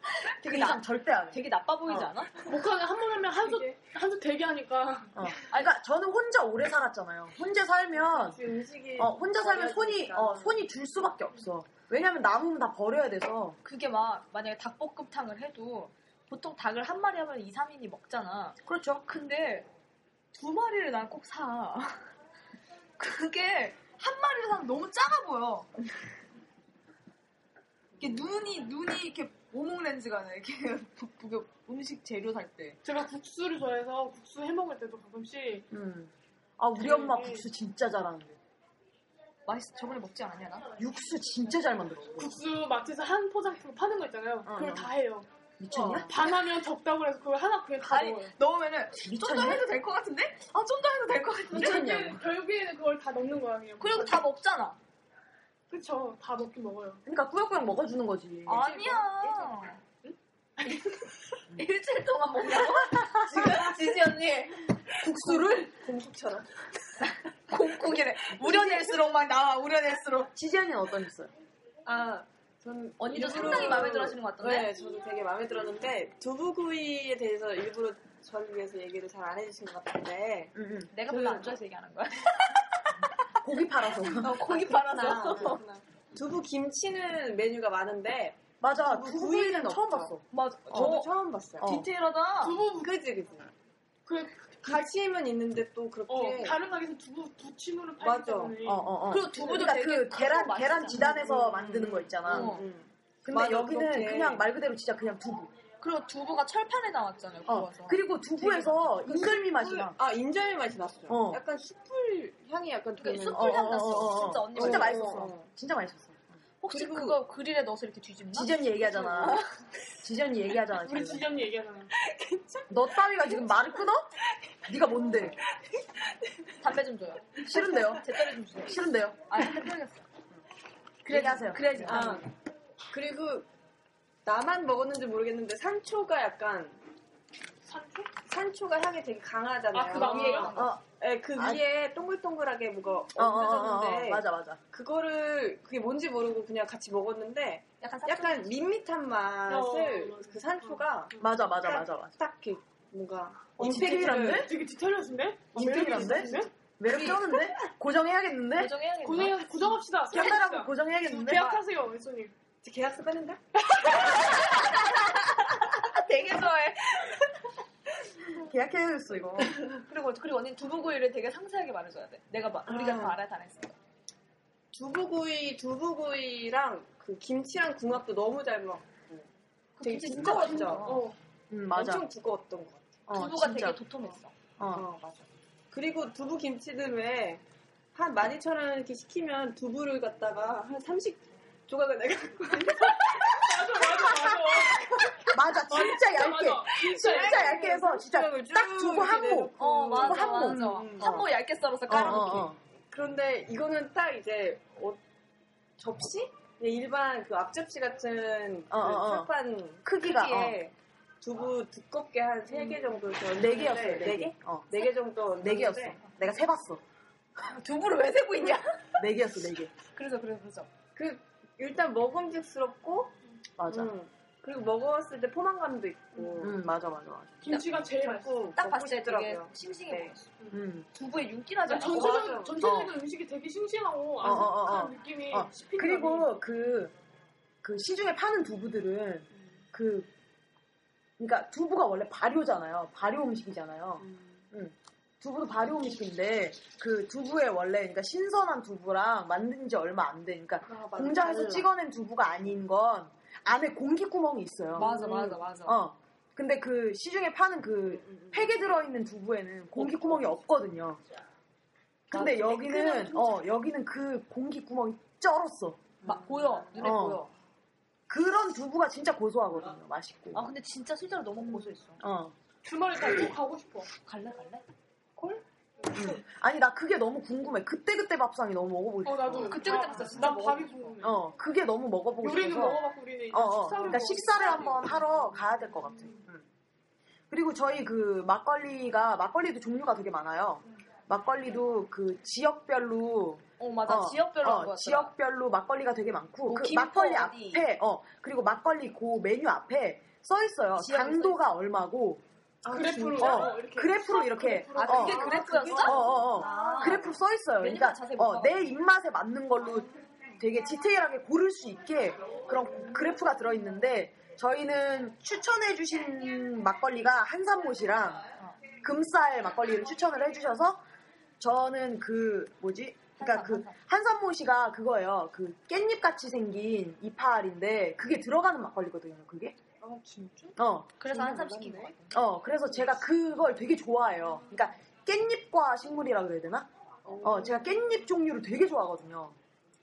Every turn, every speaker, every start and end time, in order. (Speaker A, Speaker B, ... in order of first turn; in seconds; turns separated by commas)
Speaker A: 0.2-2.3, Speaker B: 0.4-2.1, Speaker C: 2.5-5.3, Speaker B: 5.2-8.4, Speaker D: 8.0-10.6, Speaker B: 9.0-13.6, Speaker A: 13.6-19.7, Speaker B: 18.6-19.1, Speaker A: 20.3-22.0, Speaker A: 23.0-25.7, Speaker A: 28.0-32.8, Speaker C: 32.8-35.7, Speaker B: 35.7-38.4, Speaker C: 36.8-37.5, Speaker A: 39.5-40.7, Speaker B: 40.8-42.3, Speaker C: 42.2-45.3, Speaker B: 44.5-44.9, Speaker B: 45.6-46.2, Speaker A: 45.7-46.0, Speaker C: 46.1-48.3, Speaker A: 47.8-52.1, Speaker B: 48.9-49.7, Speaker B: 51.5-52.2, Speaker C: 51.6-54.2, Speaker A: 53.8-54.8, Speaker C: 55.7-57.0, Speaker B: 57.1-59.4, Speaker A: 58.5-59.9, Speaker A: 60.6-64.7, Speaker B: 62.9-63.6, Speaker B: 65.0-65.7, Speaker D: 65.2-66.5, Speaker A: 67.5-70.3, Speaker B: 68.3-69.0, Speaker B: 70.3-71.3, Speaker D: 71.8-80.5, Speaker A: 73.0-74.7, Speaker B: 73.1-74.0, Speaker B: 80.5-80.9, Speaker A: 80.9-82.8, Speaker D: 81.1-81.5, Speaker B: 83.4-84.4, Speaker A: 84.2-85.6, Speaker D: 84.3-90.2, Speaker B: 88.6-91.0, Speaker A: 90.3-92.6, Speaker D: 90.7-91.7, Speaker B: 91.6-91.9, Speaker C: 92.4-92.9, Speaker D: 92.8-93.5, Speaker C: 94.1-94.8, Speaker D: 94.6-96.6, Speaker C: 96.1-99.7, Speaker D: 98.0-98.6, Speaker B: 98.6-102.6, Speaker A: 99.1-101.1, Speaker D: 100.9-104.5, Speaker A: 102.3-102.7, Speaker B: 103.2-105.5, Speaker A: 105.8-109.9, Speaker B: 107.5-110.0, Speaker D: 109.8-113.8, Speaker B: 111.1-111.4, Speaker A: 113.0-115.1, Speaker B: 113.3-117.2, Speaker D: 114.5-115.5, Speaker A: 116.6-119.4, Speaker D: 116.7-117.1, Speaker B: 118.3-119.4, Speaker B: 120.0-121.2, Speaker C: 120.8-121.9, Speaker D: 122.0-123.6, Speaker B: 122.7-124.1, Speaker B: 124.7-125.4, Speaker A: 126.6-130.1, Speaker B: 127.4-128.1, Speaker B: 128.6-129.4, Speaker A: 131.1-132.2, Speaker B: 131.1-132.2, Speaker D: 131.8-132.3, Speaker D: 132.9-133.5, Speaker D: 134.2-136.8, Speaker C: 137.7-138.1, Speaker D: 138.2-154.5, Speaker C: 139.7-140.6, Speaker A: 140.0-140.7, Speaker B: 140.5-141.6, Speaker B: 143.2-144.6, Speaker A: 147.8-148.6, Speaker C: 149.5-151.3, Speaker B: 151.2-152.1, Speaker B: 153.6-154.5, Speaker C: 153.8-156.5, Speaker B: 155.6-158.7, Speaker D: 155.6-156.5, Speaker A: 156.9-157.1, Speaker A: 158.6-159.8, Speaker C: 159.0-162.3, Speaker B: 160.1-161.6, Speaker D: 162.6-163.4, Speaker A: 163.9-165.0, Speaker A: 165.7-167.1, Speaker B: 168.4-169.6, Speaker A: 169.9-173.8, Speaker D: 172.8-173.2, Speaker D: 174.7-179.3, Speaker A: 179.8-181.1, Speaker D: 179.8-180.9, Speaker B: 180.1-180.8, Speaker C: 180.8-181.2, Speaker B: 181.5-182.1, Speaker D: 181.7-183.0, Speaker B: 183.1-183.8, Speaker A: 183.1-184.3, Speaker B: 184.6-184.9, Speaker D: 184.7-185.1, Speaker D: 185.7-187.4, Speaker D: 187.9-195.2, Speaker C: 193.3-194.9, Speaker B: 195.3-201.3, Speaker C: 195.7-197.6, Speaker D: 196.9-201.2, Speaker A: 199.6-202.5, Speaker B: 201.9-202.6, Speaker D: 202.9-205.0, Speaker D: 205.8-216.0, Speaker B: 208.7-209.3, Speaker B: 209.8-210.6, Speaker B: 213.3-214.7, Speaker B: 215.4-216.8, Speaker A: 217.4-219.0, Speaker B: 219.0-219.7, Speaker A: 219.9-220.7, Speaker D: 220.9-223.1, Speaker B: 223.6-223.9, Speaker D: 223.7-226.6, Speaker B: 226.4-227.6, Speaker C: 227.4-228.3, Speaker A: 227.5-230.3, Speaker D: 228.0-230.2, Speaker B: 230.5-230.9, Speaker A: 230.9-232.4, Speaker C: 231.7-236.3, Speaker D: 231.8-232.6, Speaker B: 232.6-233.0, Speaker B: 234.2-236.9, Speaker B: 237.6-240.1, Speaker B: 241.2-261.0, Speaker D: 244.0-244.4, Speaker D: 250.7-251.7, Speaker A: 254.8-255.8, Speaker D: 254.8-255.4, Speaker D: 258.0-258.5, Speaker D: 259.8-260.3, Speaker B: 262.1-265.9, Speaker A: 262.1-263.4, Speaker A: 266.0-267.3, Speaker D: 266.1-266.8, Speaker B: 266.8-267.2, Speaker B: 268.1-270.5, Speaker A: 270.3-272.0, Speaker B: 272.0-272.4, Speaker C: 272.6-273.9, Speaker A: 274.0-274.6, Speaker B: 275.9-280.0, Speaker C: 279.0-281.2, Speaker A: 279.4-281.0, Speaker B: 281.0-286.5, Speaker C: 282.2-285.1, Speaker B: 287.3-302.2, Speaker A: 293.6-295.1, Speaker A: 296.5-297.6, Speaker A: 300.8-301.4, Speaker D: 302.6-303.5, Speaker C: 302.7-306.4, Speaker B: 303.2-309.9, Speaker A: 304.8-308.7, Speaker D: 305.1-305.9, Speaker D: 306.5-306.8, Speaker B: 310.4-318.2, Speaker B: 318.8-320.8, Speaker B: 321.4-329.6, Speaker A: 323.2-323.8, Speaker D: 329.8-330.6, Speaker B: 330.6-331.0, Speaker A: 331.0-332.2, Speaker D: 331.1-331.9, Speaker B: 332.1-336.7, Speaker D: 337.1-337.8, Speaker B: 337.2-339.4